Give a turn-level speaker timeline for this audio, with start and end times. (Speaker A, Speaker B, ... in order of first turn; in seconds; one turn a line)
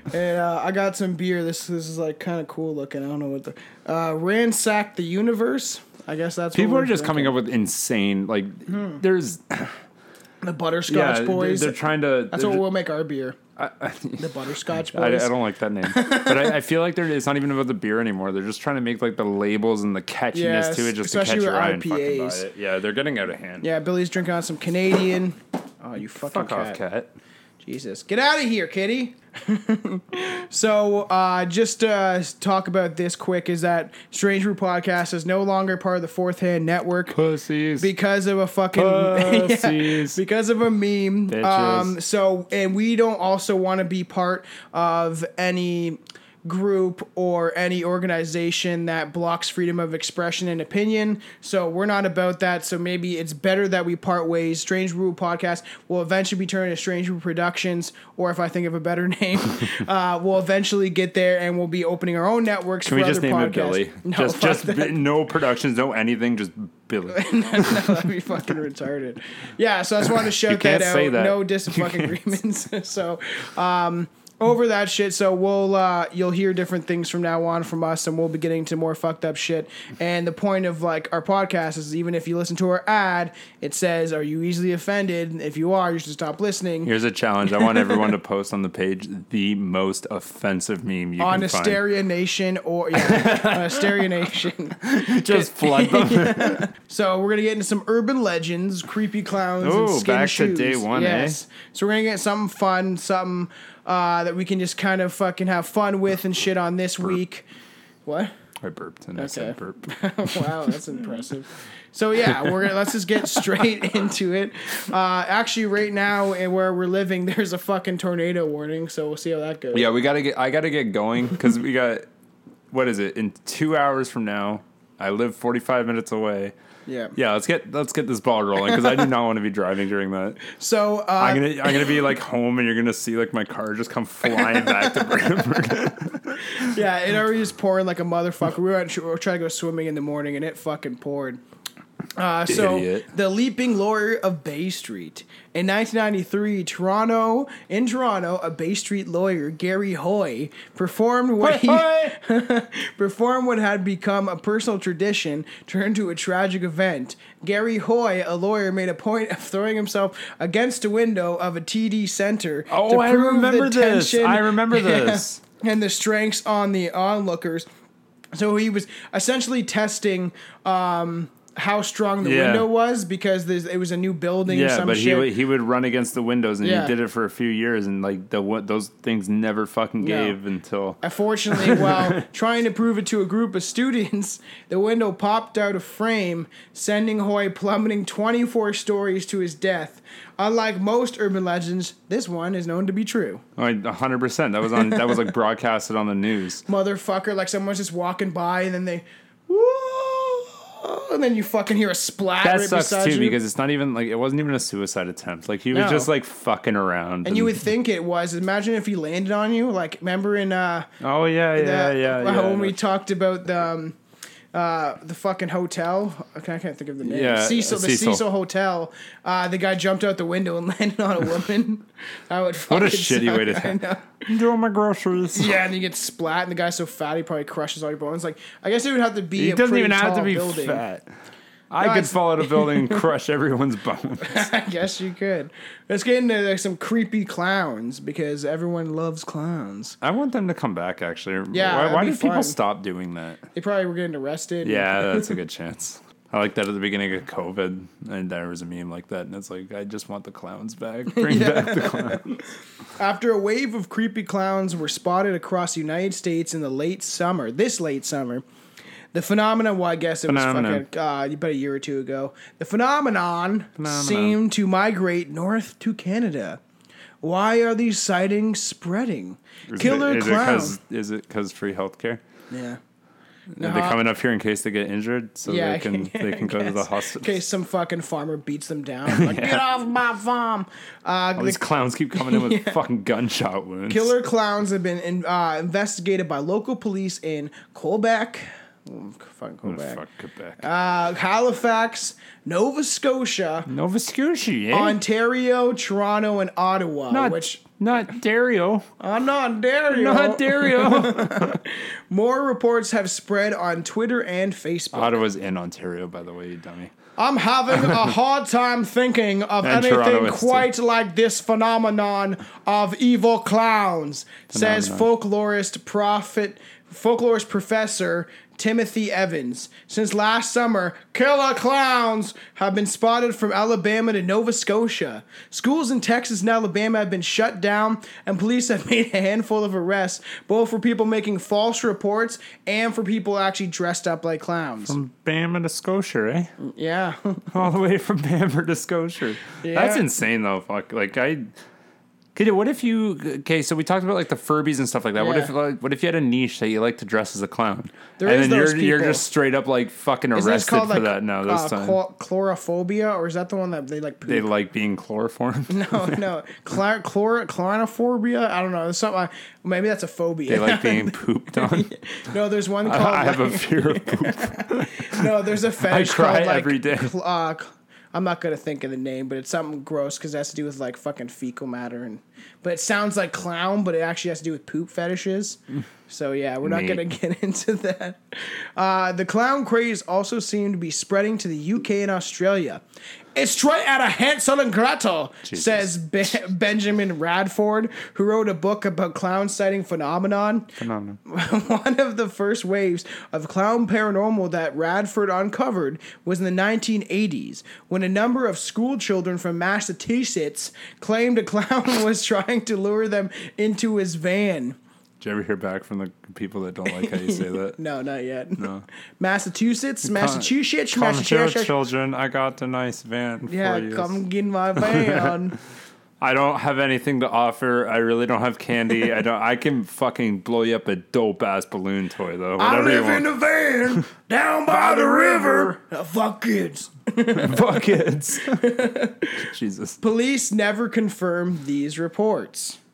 Speaker A: 0.1-7.4
Speaker B: 6.5-9.8
Speaker A: 8.7-9.0
Speaker A: 10.4-11.8
Speaker B: 10.9-12.6
Speaker A: 12.3-13.4
Speaker B: 13.6-23.7
Speaker A: 14.2-15.3
Speaker A: 15.8-16.6
Speaker A: 20.3-22.4
Speaker A: 23.6-26.8
Speaker B: 26.2-27.1
Speaker A: 27.6-37.2
Speaker B: 37.1-37.9
Speaker A: 37.8-65.0
Speaker B: 38.7-40.2
Speaker B: 41.3-42.0
Speaker B: 62.9-68.1
Speaker A: 67.1-86.9
Speaker B: 70.2-72.3
Speaker B: 86.8-91.8
Speaker A: 91.2-107.5
Speaker B: 92.9-94.1
Speaker B: 94.8-96.6
Speaker B: 99.6-101.4
Speaker A: 108.1-108.3
Speaker B: 108.6-110.8
Speaker A: 109.2-119.9
Speaker B: 112.2-113.8
Speaker B: 119.7-122.0
Speaker B: 122.7-126.5
Speaker A: 126.9-127.2
Speaker B: 127.2-130.4
Speaker A: 130.5-132.0
Speaker B: 131.2-136.8
Speaker A: 134.3-135.3
Speaker A: 136.4-141.4
Speaker A: 142.2-167.7
Speaker B: 142.5-143.1
Speaker B: 151.4-152.2
Speaker B: 162.7-165.4
Speaker A: 168.3-175.3
Speaker B: 172.2-172.7
Speaker B: 174.5-181.0
Speaker A: 176.6-176.9
Speaker A: 180.0-180.4
Speaker A: 181.0-193.4
Speaker B: 181.5-182.2
Speaker B: 193.6-196.6
Speaker A: 194.8-195.1
Speaker A: 196.7-203.4
Speaker B: 202.4-207.7
Speaker A: 205.7-206.1
Speaker A: 207.2-210.9
Speaker B: 211.0-212.8
Speaker A: 211.6-214.0
Speaker A: 214.5-224.2
Speaker B: 217.0-218.2
Speaker B: 222.7-225.6
Speaker A: 225.3-230.8
Speaker B: 229.4-231.1
Speaker B: 231.7-234.5
Speaker A: 231.8-233.1
Speaker A: 234.2-240.0
Speaker B: 240.0-243.4
Speaker A: 241.5-242.6
Speaker A: 243.5-245.4
Speaker B: 244.6-252.4
Speaker A: 251.1-258.4
Speaker A: 259.1-266.6
Speaker B: 260.3-260.9
Speaker B: 263.8-264.4
Speaker A: 267.2-270.8
Speaker B: 269.7-272.2
Speaker A: 272.5-272.8
Speaker A: 273.6-274.0
Speaker B: 273.6-277.4
Speaker A: 275.5-282.8
Speaker B: 279.1-279.6
Speaker B: 281.4-284.1
Speaker A: 283.9-290.0
Speaker B: 289.6-290.6
Speaker A: 290.6-293.7
Speaker B: 293.7-295.0
Speaker A: 294.7-297.6
Speaker B: 297.1-298.9
Speaker A: 299.0-305.2
Speaker B: 299.9-301.6
Speaker B: 304.9-306.9
Speaker A: 307.2-335.0
Speaker B: 307.7-308.1
Speaker B: 309.6-310.7
Speaker B: 314.5-315.1
Speaker B: 334.9-336.5
Speaker A: 336.6-337.7
Speaker B: 337.5-341.5
Speaker A: 339.6-340.1
Speaker B: 342.4-352.0
Speaker A: 345.2-345.5
Speaker A: 348.2-349.2
Speaker A: 350.4-354.5
Speaker B: 354.2-356.2
Speaker A: 355.7-382.8
Speaker B: 360.5-361.9
Speaker B: 362.8-367.1
Speaker B: 376.6-377.0
Speaker A: 383.4-404.8
Speaker B: 385.5-385.9
Speaker B: 390.8-391.2
Speaker B: 405.2-407.8
Speaker A: 406.9-411.7
Speaker B: 408.6-408.9
Speaker B: 410.1-414.2
Speaker A: 413.5-415.6
Speaker B: 414.8-415.4
Speaker B: 416.2-423.3
Speaker A: 422.6-427.9
Speaker B: 424.7-425.7
Speaker B: 427.3-428.7
Speaker A: 428.5-429.5
Speaker B: 429.4-430.0
Speaker A: 430.0-432.8